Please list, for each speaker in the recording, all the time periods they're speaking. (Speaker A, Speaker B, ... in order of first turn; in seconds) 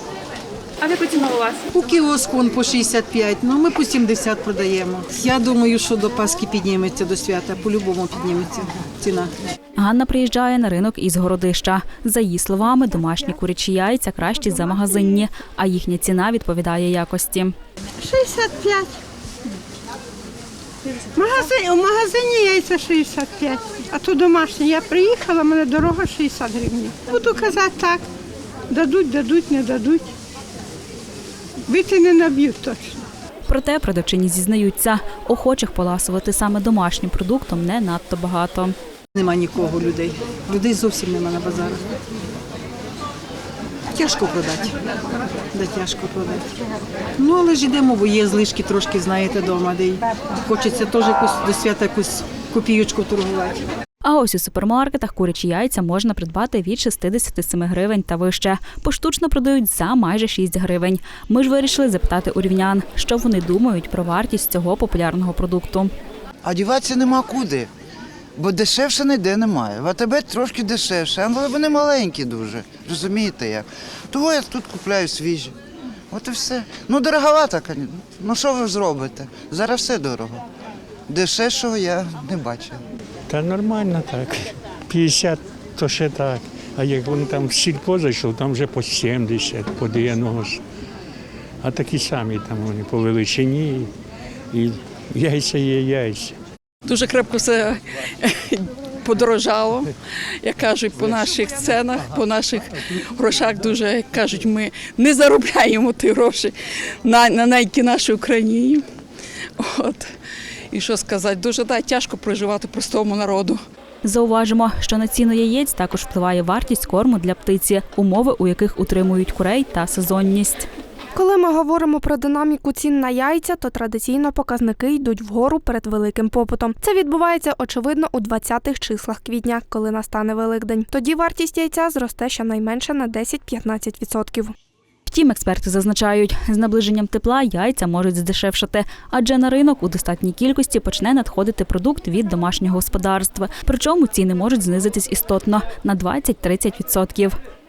Speaker A: 1.7-9.3, 39.1-41.8, 43.9-44.8, 45.5-46.5, 47.2-53.6
Speaker B: 9.8-17.5, 33.5-38.8, 54.0-65.9, 114.0-120.7, 135.1-147.4
Speaker C: 18.0-19.0, 21.1-28.0, 28.7-30.1, 31.7-33.0
Speaker D: 66.4-67.7, 68.4-75.5, 76.1-80.4, 81.1-82.8
Speaker E: 83.3-90.6, 91.6-93.9, 94.5-96.3
Speaker F: 96.8-108.8, 109.6-110.1, 110.7-113.6
Speaker G: 121.2-134.5